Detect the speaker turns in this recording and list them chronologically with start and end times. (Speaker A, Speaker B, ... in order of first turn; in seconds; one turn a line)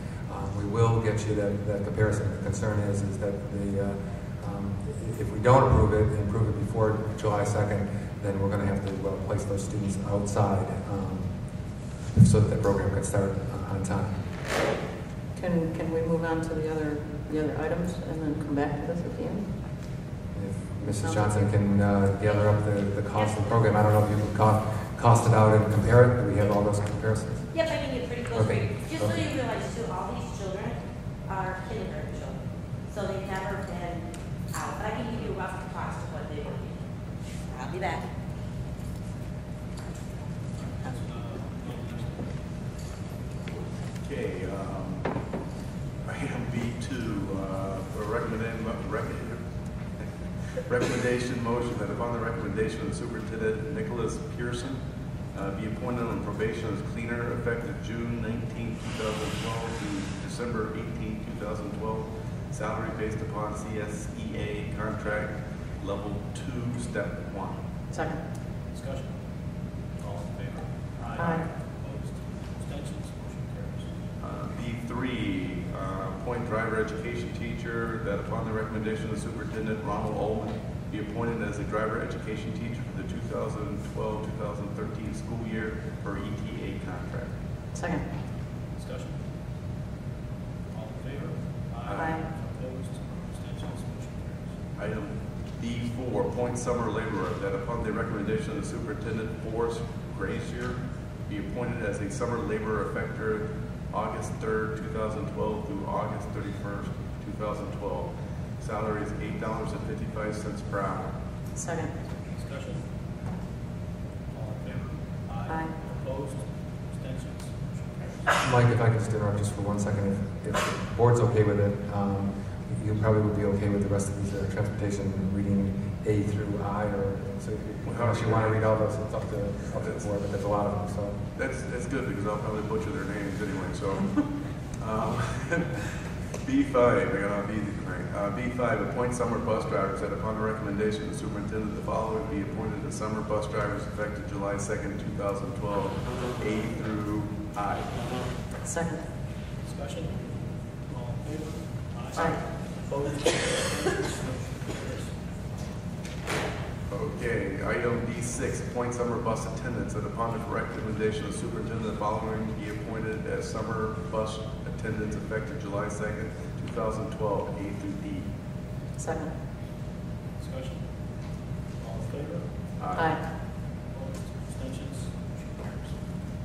Speaker A: 0.3-11.3
Speaker A: 12.1-14.2
Speaker B: 15.4-19.4
Speaker A: 20.3-27.5
Speaker B: 21.0-21.4
Speaker C: 23.1-23.7
Speaker C: 27.5-36.8
Speaker A: 28.3-29.2
Speaker C: 37.5-38.1
Speaker D: 40.5-42.4
Speaker E: 44.0-45.1
Speaker E: 46.0-49.4
Speaker E: 50.6-54.8
Speaker E: 55.3-67.6
Speaker B: 67.9-68.2
Speaker D: 68.7-69.1
Speaker D: 70.0-73.9
Speaker B: 71.2-71.4
Speaker E: 74.2-87.3
Speaker B: 87.8-88.0
Speaker D: 88.8-89.2
Speaker D: 90.7-94.5
Speaker E: 91.9-92.2
Speaker E: 94.8-111.1
Speaker B: 111.6-111.9
Speaker D: 112.3-112.8
Speaker D: 114.3-118.2
Speaker A: 118.4-131.2
Speaker E: 127.8-128.7
Speaker E: 131.4-134.2
Speaker E: 134.8-135.8
Speaker E: 136.4-148.3
Speaker B: 148.6-149.0
Speaker D: 149.6-155.2
Speaker E: 156.9-168.3
Speaker B: 169.0-169.3
Speaker D: 170.4-170.8
Speaker D: 171.8-172.5
Speaker E: 172.8-173.2
Speaker B: 172.9-173.2
Speaker D: 173.9-176.0